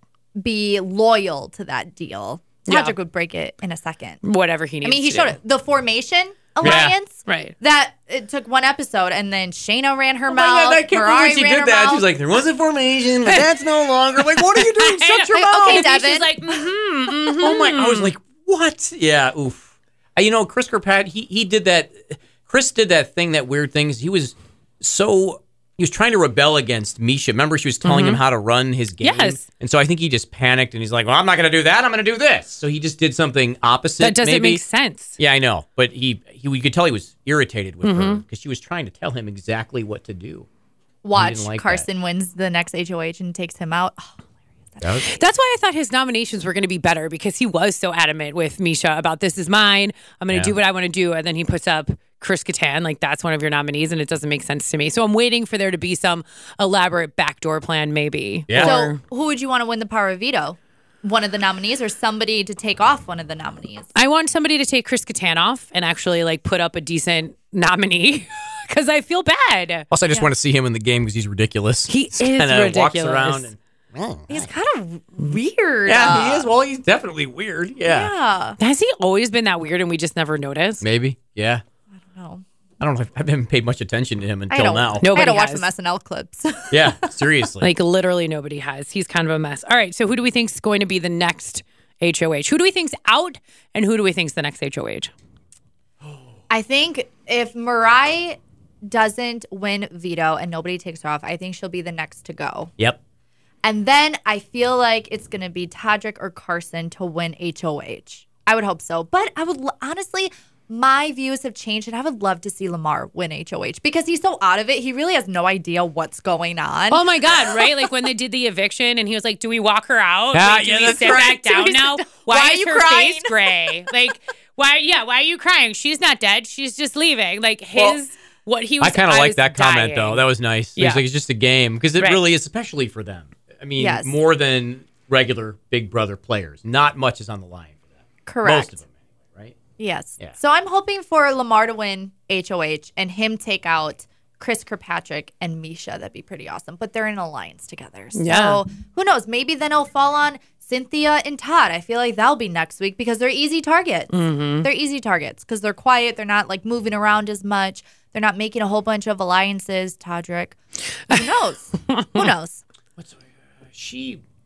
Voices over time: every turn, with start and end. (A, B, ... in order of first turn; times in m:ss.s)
0:00.4-0:04.2 A
0:02.7-0:03.0 B
0:04.2-0:05.4 B
0:04.8-0:12.0 A
0:06.6-0:07.0 C
0:06.6-0:07.5 B
0:10.3-0:15.9 C
0:14.2-0:18.1 B
0:15.3-0:16.5 A
0:17.3-0:34.6 C
0:27.8-0:28.2 B
0:29.0-0:29.4 B
0:34.0-0:35.2 B
0:35.2-0:40.5 C
0:37.8-0:38.2 B
0:41.0-0:44.2 A
0:41.2-0:41.9 C
0:44.8-0:45.1 C
0:45.0-0:59.0 B
0:58.5-0:58.8 C
0:58.6-1:03.9 A
1:04.0-1:09.9 B
1:09.9-1:14.5 C
1:11.9-1:13.5 B
1:14.3-1:16.5 A
1:15.9-1:18.1 C
1:17.9-1:18.6 A
1:18.6-1:20.8 B
1:20.8-1:21.6 C
1:22.1-1:22.4 A
1:22.8-1:25.0 C
1:24.5-1:27.1 A
1:25.0-1:25.7 B
1:26.7-1:27.7 C
1:27.6-1:35.1 B
1:36.5-1:42.7 A
1:43.6-1:57.7 A
1:56.9-2:10.2 B
2:00.3-2:01.4 C
2:01.0-2:03.9 A
2:08.8-2:17.8 C
2:10.8-2:11.0 B
2:13.8-2:14.2 A
2:18.3-2:18.7 A
2:18.4-2:19.6 C
2:19.8-2:40.6 A
2:28.2-2:28.6 B
2:34.1-2:34.7 B
2:41.1-2:42.6 A
2:41.9-2:42.3 B
2:43.0-2:44.2 C